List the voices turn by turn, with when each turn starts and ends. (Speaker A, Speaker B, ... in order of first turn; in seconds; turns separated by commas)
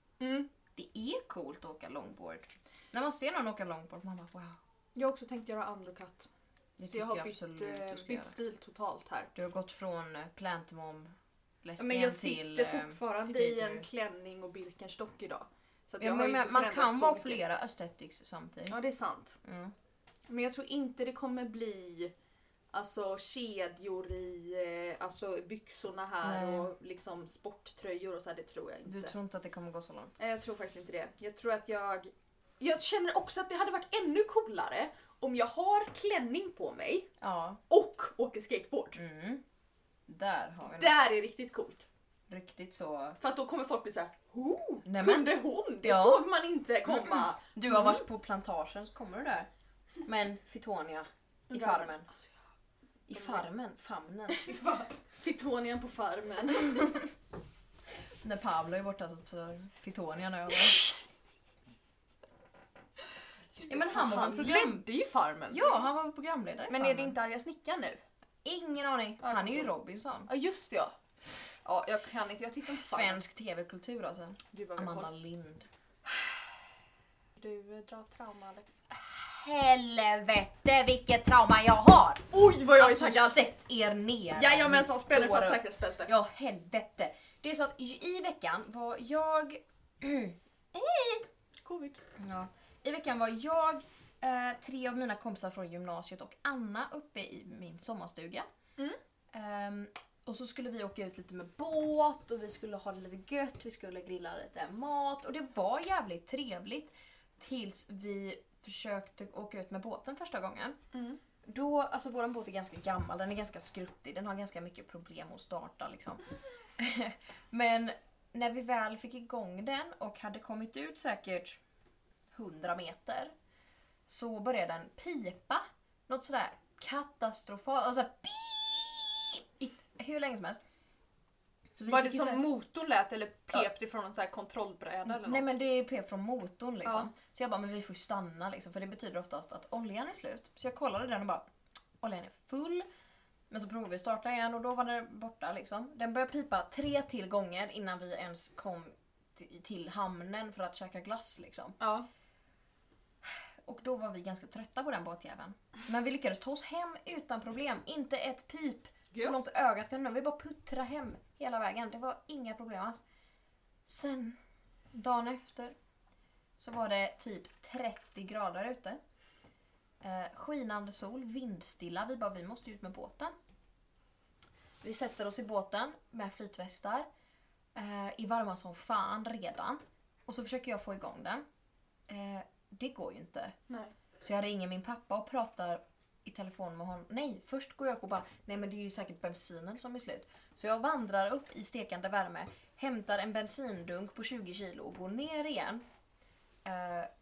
Speaker A: 0.2-0.5, Speaker B: 0.8-4.6, Speaker A: 4.9-6.3, Speaker B: 6.8-8.3, Speaker A: 6.8-9.3, Speaker B: 9.3-13.8, Speaker A: 11.8-17.4, Speaker B: 16.0-18.8, Speaker A: 18.7-19.4, Speaker B: 19.4-19.7, Speaker A: 20.3-22.1, Speaker A: 22.7-29.1, Speaker B: 26.2-26.7, Speaker B: 28.8-30.1, Speaker A: 30.2-37.1, Speaker B: 37.2-37.6, Speaker A: 37.7-39.0, Speaker B: 38.9-39.4, Speaker B: 40.1-41.0, Speaker A: 40.6-41.9, Speaker B: 42.3-43.2, Speaker A: 43.2-48.0, Speaker B: 44.8-46.3, Speaker B: 46.8-49.5, Speaker B: 50.0-52.1, Speaker A: 51.5-52.3, Speaker B: 53.1-54.5, Speaker A: 53.1-53.5, Speaker A: 54.3-56.9, Speaker B: 56.8-57.0, Speaker B: 58.2-60.9, Speaker A: 63.5-65.8, Speaker B: 63.6-64.9, Speaker B: 65.5-67.2, Speaker A: 66.7-68.0, Speaker B: 68.4-70.3, Speaker A: 69.2-69.7, Speaker A: 70.3-70.9, Speaker A: 71.6-73.2, Speaker B: 72.8-75.7, Speaker A: 74.5-75.1, Speaker A: 77.3-78.8, Speaker B: 78.9-91.2, Speaker A: 82.3-83.5, Speaker A: 84.3-86.1, Speaker A: 91.6-92.0, Speaker B: 92.2-98.5, Speaker B: 99.3-110.8, Speaker A: 110.9-111.2, Speaker B: 111.4-116.2, Speaker B: 116.8-121.6, Speaker B: 122.3-123.3, Speaker B: 124.1-130.6, Speaker B: 131.7-132.5, Speaker A: 131.9-135.5, Speaker B: 135.0-141.4, Speaker A: 136.8-137.1, Speaker B: 142.0-142.8, Speaker B: 143.5-151.8, Speaker A: 151.8-152.1, Speaker B: 153.2-163.0, Speaker B: 163.8-164.4, Speaker B: 164.9-165.7, Speaker B: 166.6-169.0, Speaker B: 170.0-173.3, Speaker B: 174.8-177.1, Speaker B: 177.7-181.4, Speaker B: 182.1-183.6, Speaker B: 184.2-195.8, Speaker B: 196.6-197.1